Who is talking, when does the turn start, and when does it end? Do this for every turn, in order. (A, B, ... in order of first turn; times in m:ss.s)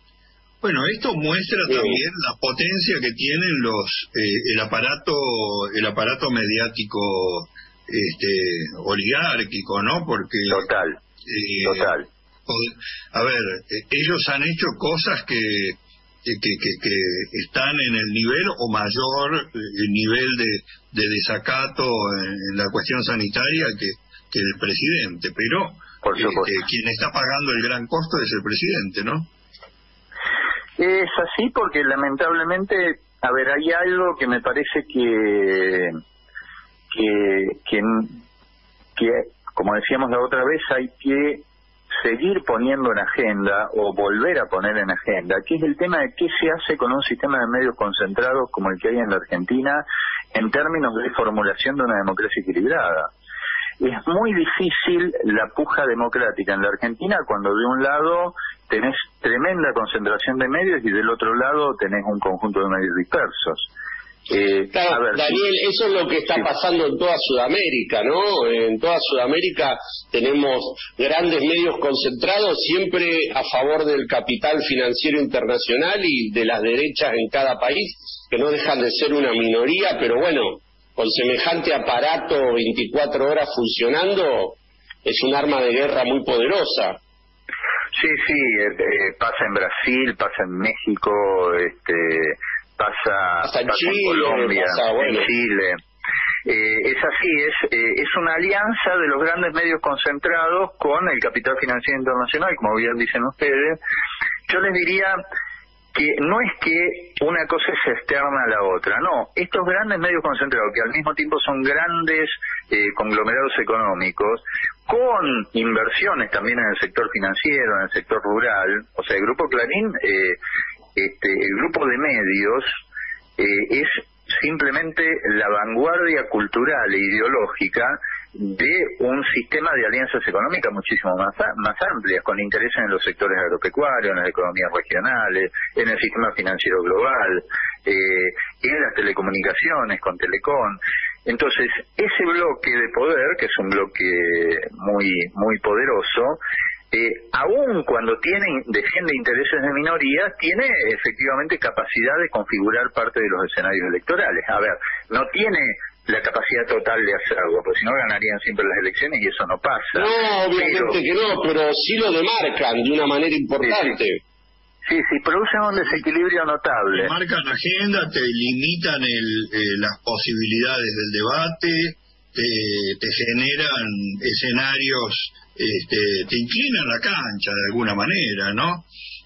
0:00.6-0:10.7 A
0:10.5-0:11.0 B
0:11.2-0:11.9 A
0:11.6-0:12.0 B
0:12.4-0:29.3 A
0:26.0-0:26.5 B
0:30.8-0:36.0 B
0:36.9-0:38.2 B
0:39.0-0:41.4 B
0:42.0-0:53.1 B
0:53.8-1:03.7 B
1:04.3-1:05.4 B
1:04.7-1:27.0 C
1:27.9-1:35.8 B
1:33.4-1:35.3 C
1:36.4-1:43.8 B
1:44.5-1:45.2 B
1:45.9-2:00.4 B
2:01.0-2:02.8 B
2:03.4-2:26.4 B
2:26.9-2:41.0 B
2:39.9-2:44.2 C
2:44.9-2:47.1 B
2:46.9-2:58.9 A